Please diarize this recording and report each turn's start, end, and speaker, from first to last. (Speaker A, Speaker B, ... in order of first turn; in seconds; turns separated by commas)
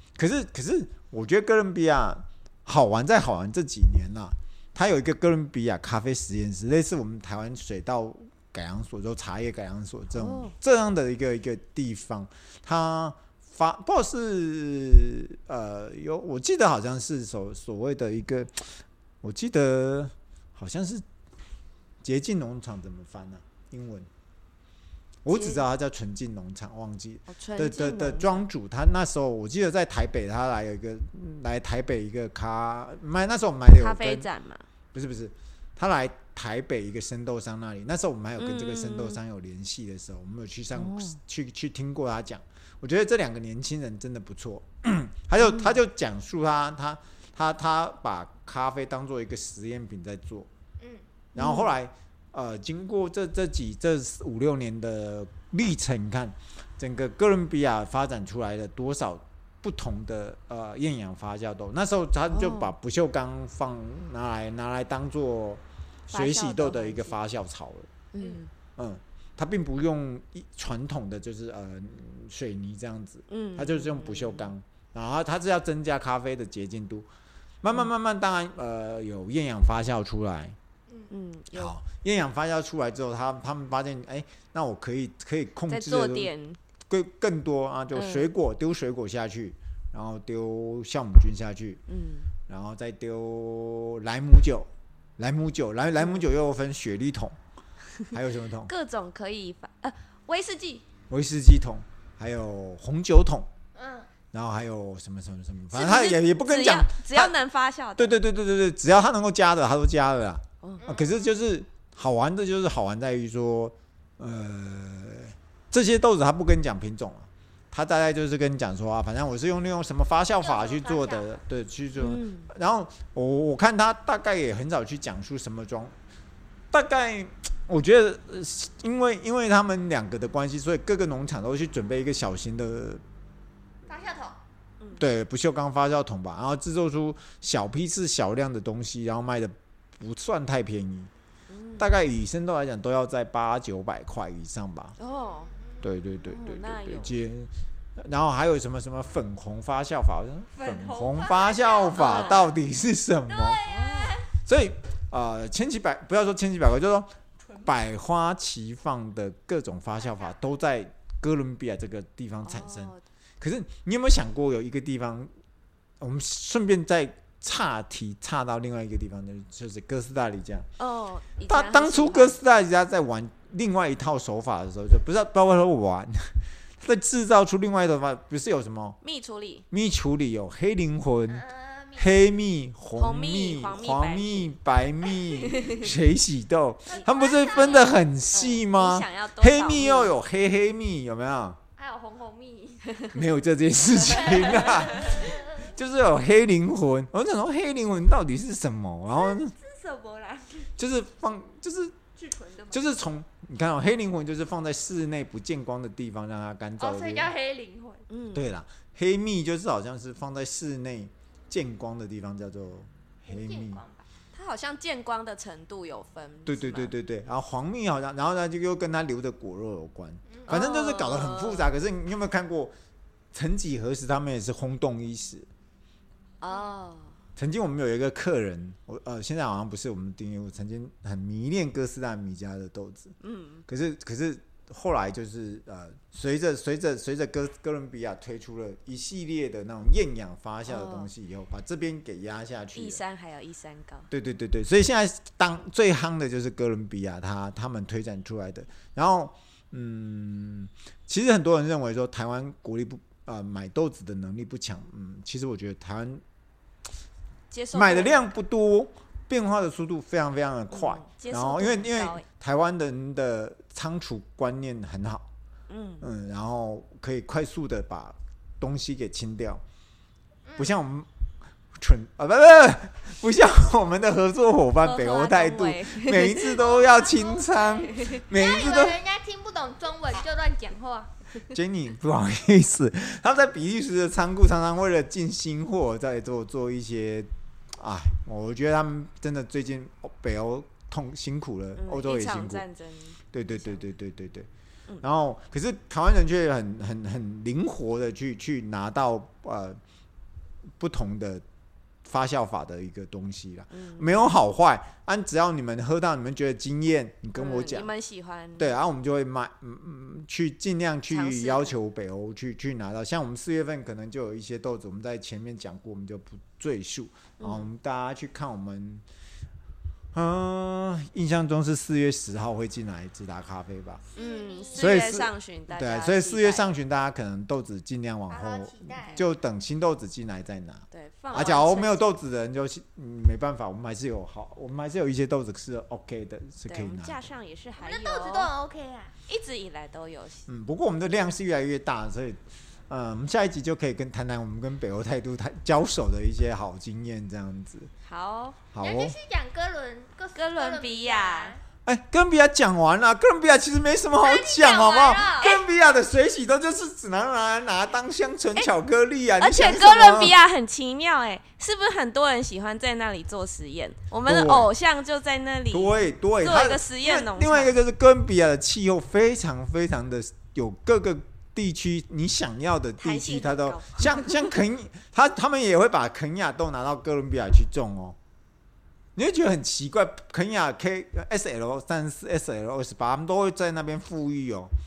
Speaker A: 0.2-18.6, Speaker B: 10.1-10.5, Speaker A: 19.2-21.0, Speaker A: 22.0-24.1, Speaker A: 25.2-34.3, Speaker B: 25.3-25.6, Speaker B: 27.3-28.4, Speaker B: 33.8-34.6, Speaker A: 34.9-50.5, Speaker B: 38.4-39.2, Speaker B: 40.8-41.2, Speaker B: 45.4-45.8, Speaker C: 50.8-51.0, Speaker A: 51.3-67.9, Speaker B: 51.4-51.8, Speaker B: 62.3-62.7, Speaker B: 66.1-67.2, Speaker B: 68.1-68.5, Speaker A: 68.8-77.1, Speaker B: 73.3-74.5, Speaker A: 77.6-80.5, Speaker B: 81.1-81.7, Speaker A: 81.5-86.3, Speaker B: 85.7-86.6, Speaker A: 86.9-91.8, Speaker B: 87.9-88.3, Speaker B: 91.9-92.3, Speaker A: 92.5-97.3, Speaker B: 96.0-96.2, Speaker A: 98.1-98.7, Speaker B: 98.6-100.8, Speaker A: 101.1-103.5, Speaker C: 103.7-104.2, Speaker A: 104.3-107.4, Speaker B: 105.7-108.2, Speaker A: 108.0-125.9, Speaker B: 110.6-110.9, Speaker C: 110.8-111.4, Speaker C: 120.4-121.4, Speaker B: 122.0-122.5, Speaker A: 126.7-133.0, Speaker C: 133.9-134.4, Speaker B: 134.8-135.1, Speaker A: 134.9-141.1, Speaker B: 141.5-141.9, Speaker A: 141.8-145.0, Speaker B: 145.0-145.5, Speaker C: 145.5-145.8, Speaker A: 145.8-153.6, Speaker B: 146.2-147.2, Speaker C: 150.5-152.5, Speaker B: 151.9-152.5, Speaker C: 153.3-154.3, Speaker B: 153.6-154.2, Speaker A: 154.4-165.3, Speaker B: 162.4-163.0, Speaker A: 166.0-170.7, Speaker B: 170.8-172.4, Speaker A: 171.4-179.0, Speaker B: 179.0-179.7, Speaker A: 179.7-181.4, Speaker C: 181.3-182.3, Speaker A: 182.0-191.6, Speaker B: 182.9-184.5, Speaker C: 185.4-185.7, Speaker B: 185.4-185.8, Speaker C: 186.9-188.0, Speaker B: 187.5-190.1, Speaker C: 191.8-193.0, Speaker A: 193.1-199.5, Speaker C: 194.1-195.7, Speaker B: 194.2-194.6, Speaker C: 199.1-200.7, Speaker A: 200.8-201.9, Speaker C: 202.1-202.9, Speaker A: 202.7-207.3, Speaker C: 206.8-208.0, Speaker B: 208.1-208.5, Speaker A: 208.3-213.8, Speaker C: 213.2-214.1, Speaker B: 214.3-216.9, Speaker A: 216.4-222.7, Speaker C: 220.3-220.5, Speaker B: 220.5-221.7, Speaker A: 223.3-225.5, Speaker B: 226.4-227.1, Speaker A: 227.4-233.1, Speaker B: 233.2-233.6, Speaker A: 233.7-243.0, Speaker B: 240.7-241.1, Speaker B: 242.7-244.1, Speaker A: 244.1-256.2, Speaker B: 257.5-258.2, Speaker A: 257.7-265.2, Speaker B: 260.7-262.2, Speaker B: 265.7-266.1, Speaker A: 266.0-269.6, Speaker C: 270.5-270.7, Speaker A: 270.6-271.1, Speaker A: 271.8-279.0, Speaker B: 274.8-276.7, Speaker C: 276.6-281.1, Speaker B: 277.9-278.2, Speaker A: 281.5-292.6, Speaker B: 291.8-293.9, Speaker A: 293.3-294.5, Speaker A: 295.0-299.8, Speaker A: 300.8-301.4, Speaker A: 302.1-307.9, Speaker B: 303.7-304.4, Speaker B: 307.3-308.7, Speaker A: 308.6-319.0, Speaker B: 311.1-311.8, Speaker B: 317.4-317.7, Speaker A: 320.1-324.0, Speaker C: 324.1-325.0, Speaker B: 324.1-326.7, Speaker A: 324.7-337.3, Speaker C: 328.3-329.2, Speaker B: 330.9-332.2, Speaker B: 336.6-338.5, Speaker C: 337.8-339.1, Speaker B: 339.2-340.5, Speaker A: 340.5-347.9, Speaker B: 348.0-348.7, Speaker A: 348.7-349.1, Speaker C: 348.8-351.6, Speaker B: 350.3-351.6, Speaker A: 351.8-360.4, Speaker C: 354.2-355.6, Speaker B: 355.2-355.6, Speaker B: 359.4-367.8, Speaker A: 364.2-364.7, Speaker A: 365.7-378.2, Speaker B: 373.0-374.5, Speaker A: 379.1-384.7